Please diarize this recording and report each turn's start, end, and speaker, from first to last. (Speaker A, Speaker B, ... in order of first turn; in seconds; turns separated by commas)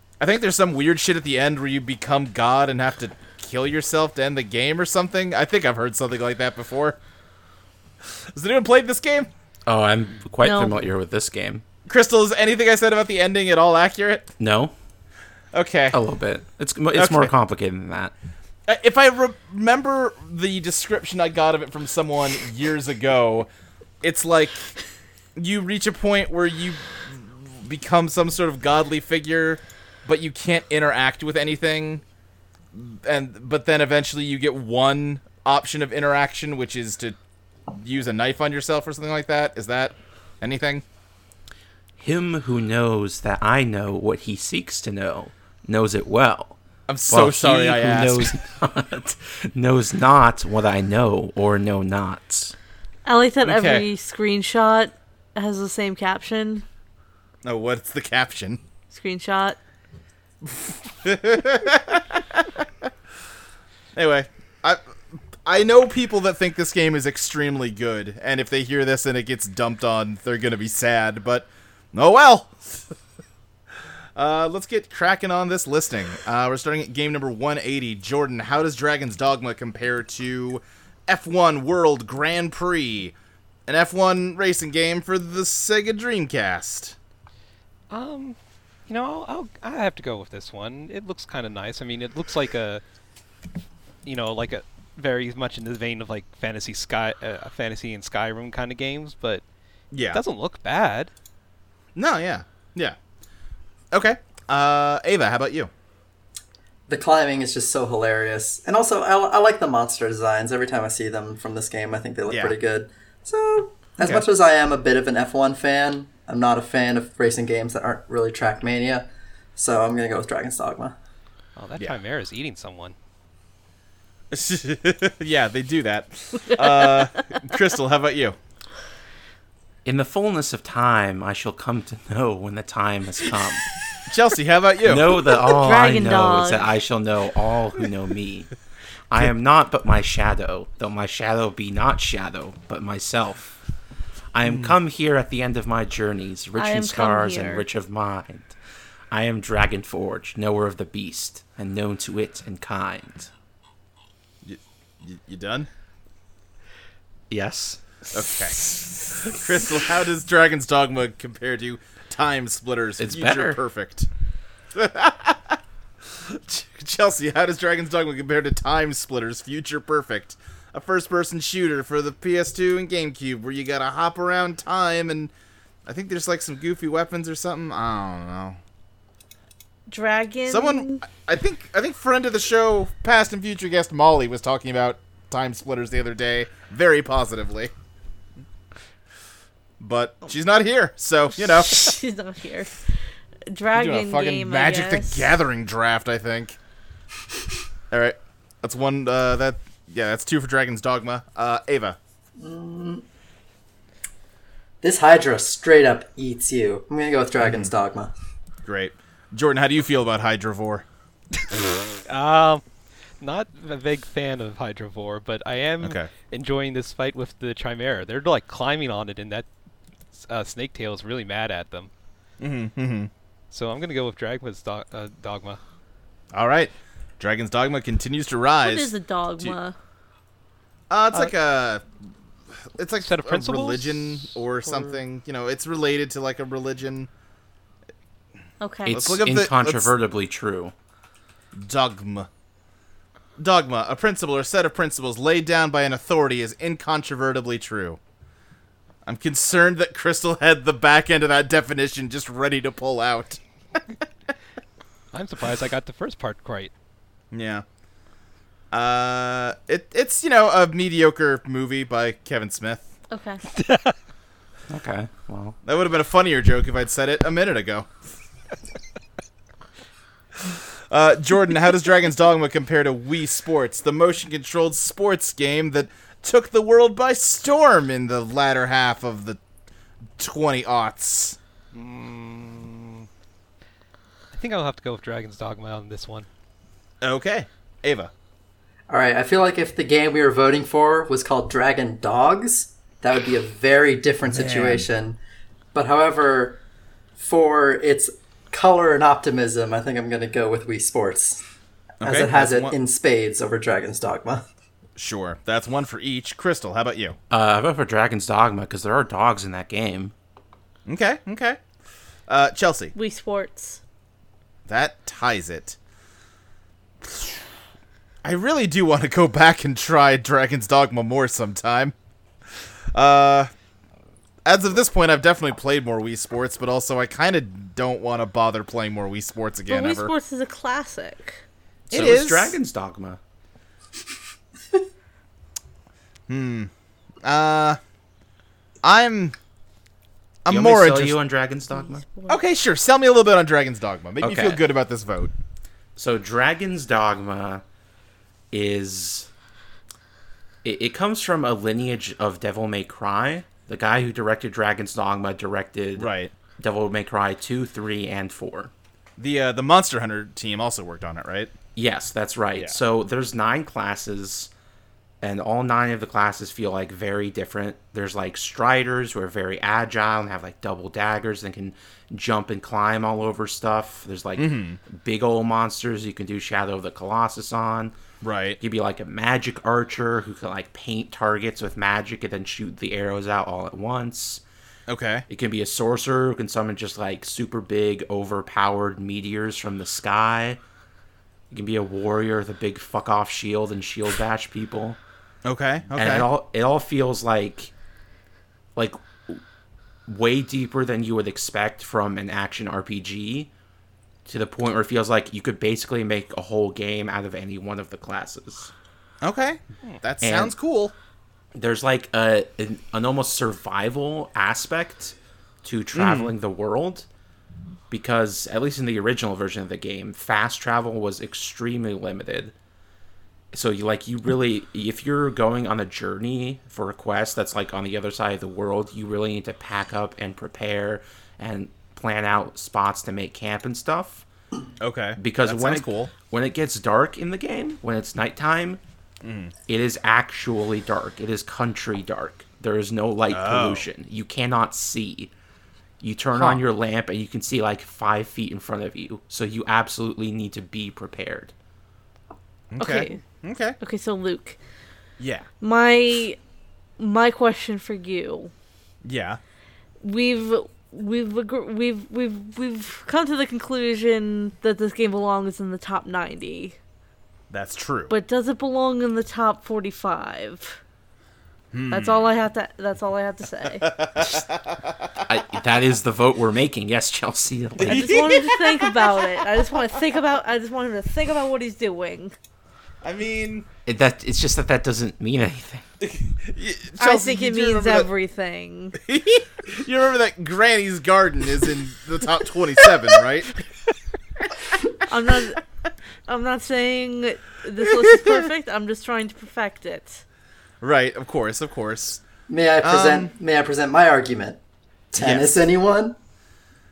Speaker A: 0.2-7.0, Speaker A: 8.3-9.3, Speaker B: 9.7-11.6, Speaker C: 10.4-10.8, Speaker A: 11.8-14.3, Speaker B: 14.4-14.7, Speaker A: 15.5-16.0, Speaker B: 15.9-18.1, Speaker A: 16.9-17.3, Speaker A: 18.6-23.5, Speaker A: 24.0-24.7, Speaker A: 25.4-32.0, Speaker A: 32.7-37.1, Speaker A: 37.7-40.8, Speaker B: 42.0-46.6, Speaker A: 46.9-48.4, Speaker B: 47.1-52.5, Speaker C: 53.0-56.6, Speaker A: 53.4-53.9, Speaker A: 57.4-58.6, Speaker C: 58.9-59.6, Speaker A: 60.4-62.9, Speaker A: 63.9-64.8, Speaker A: 65.4-72.8, Speaker A: 74.2-83.1, Speaker A: 83.7-87.0, Speaker D: 87.9-92.8, Speaker D: 94.0-99.4, Speaker A: 99.9-100.2, Speaker D: 100.1-101.1, Speaker A: 101.9-103.0, Speaker A: 103.9-105.7, Speaker E: 106.9-120.9, Speaker A: 112.3-112.5, Speaker A: 114.0-114.2, Speaker D: 121.5-122.9, Speaker A: 124.3-128.3, Speaker C: 126.4-127.2, Speaker B: 129.8-133.7, Speaker A: 134.1-135.2, Speaker B: 134.8-138.5, Speaker C: 135.5-136.7, Speaker B: 139.1-143.6, Speaker B: 144.3-148.5, Speaker A: 144.4-144.8, Speaker C: 146.6-147.6, Speaker B: 149.1-153.3, Speaker A: 154.4-155.7, Speaker B: 157.3-157.8, Speaker A: 158.1-164.1, Speaker B: 163.0-163.6, Speaker A: 164.7-175.3, Speaker A: 175.8-178.6, Speaker C: 179.9-181.0, Speaker A: 180.5-187.7, Speaker A: 189.8-192.0, Speaker C: 191.4-192.9, Speaker C: 193.5-195.3, Speaker A: 193.7-196.6, Speaker A: 197.9-202.0, Speaker E: 202.4-203.0, Speaker E: 204.8-208.1, Speaker A: 207.4-207.7, Speaker A: 208.6-210.8, Speaker D: 212.1-212.6, Speaker D: 213.2-219.4, Speaker A: 215.8-216.1, Speaker D: 220.1-221.9, Speaker A: 222.4-223.1, Speaker D: 223.5-225.6, Speaker A: 226.3-229.6, Speaker C: 228.6-229.7, Speaker A: 230.9-231.8, Speaker A: 232.7-237.1, Speaker D: 233.0-235.0, Speaker C: 238.6-239.0, Speaker B: 238.8-240.7, Speaker A: 238.9-239.9, Speaker A: 241.5-242.3, Speaker A: 243.4-248.0, Speaker A: 249.0-253.8, Speaker D: 255.1-256.7, Speaker A: 257.3-257.6, Speaker A: 258.7-262.9, Speaker C: 263.1-263.4, Speaker D: 263.5-263.9, Speaker B: 264.7-265.6, Speaker A: 265.6-267.9, Speaker A: 270.5-279.4, Speaker A: 280.2-281.4, Speaker D: 281.7-283.1, Speaker D: 284.3-286.3, Speaker A: 287.0-288.1, Speaker E: 288.9-295.2, Speaker A: 294.3-294.9, Speaker E: 295.7-296.6, Speaker E: 297.2-301.4, Speaker A: 302.0-302.8, Speaker E: 302.0-304.4, Speaker A: 304.9-307.1, Speaker B: 307.3-310.1, Speaker A: 310.9-311.6, Speaker A: 312.3-312.9, Speaker C: 312.9-313.8, Speaker A: 314.6-315.8, Speaker A: 317.0-317.3, Speaker A: 318.2-321.9, Speaker A: 322.9-323.5, Speaker A: 324.4-330.1, Speaker C: 329.7-331.4, Speaker A: 331.9-332.6, Speaker B: 331.9-333.2, Speaker A: 336.3-336.7, Speaker A: 337.2-337.8, Speaker A: 338.8-339.3, Speaker A: 340.4-341.2, Speaker B: 340.5-342.0, Speaker C: 341.7-342.4, Speaker A: 342.3-345.3, Speaker B: 344.2-344.6, Speaker B: 345.9-347.6, Speaker B: 348.5-349.3, Speaker B: 350.6-358.7, Speaker A: 356.0-356.3, Speaker A: 359.2-361.5, Speaker B: 361.8-364.5, Speaker B: 365.2-377.9, Speaker A: 374.4-374.8, Speaker A: 378.2-378.6, Speaker B: 378.6-384.4, Speaker A: 384.9-385.2, Speaker B: 385.3-390.6, Speaker B: 391.5-395.0, Speaker A: 395.4-396.3, Speaker B: 395.9-397.7, Speaker B: 398.8-399.4, Speaker B: 400.1-403.5, Speaker B: 404.2-408.7, Speaker A: 409.2-410.9, Speaker B: 410.2-410.5, Speaker B: 411.5-417.1, Speaker A: 415.9-416.3, Speaker B: 417.9-422.5, Speaker B: 423.5-434.2, Speaker A: 434.8-436.1, Speaker B: 435.2-438.8, Speaker A: 439.2-439.5, Speaker B: 439.7-445.3, Speaker A: 443.3-443.9, Speaker B: 446.0-451.5, Speaker A: 446.3-446.6, Speaker A: 452.7-453.8, Speaker C: 452.8-453.2, Speaker C: 453.8-454.6, Speaker A: 455.2-455.5, Speaker C: 455.6-456.4, Speaker C: 457.0-458.5, Speaker A: 459.0-459.4, Speaker C: 460.0-466.8, Speaker A: 467.5-468.1, Speaker C: 468.1-470.8, Speaker A: 471.7-472.2, Speaker C: 471.9-473.9, Speaker A: 473.8-475.3, Speaker B: 475.2-478.2, Speaker A: 477.8-479.6, Speaker C: 477.8-482.4, Speaker A: 483.0-483.7, Speaker B: 483.9-485.8, Speaker A: 486.0-488.1, Speaker C: 487.0-489.0, Speaker A: 489.0-493.5, Speaker C: 495.1-495.6, Speaker C: 496.3-500.2, Speaker A: 497.8-498.5, Speaker A: 500.8-502.2, Speaker E: 502.5-504.6, Speaker A: 502.8-503.3, Speaker E: 505.1-506.1, Speaker A: 505.1-505.7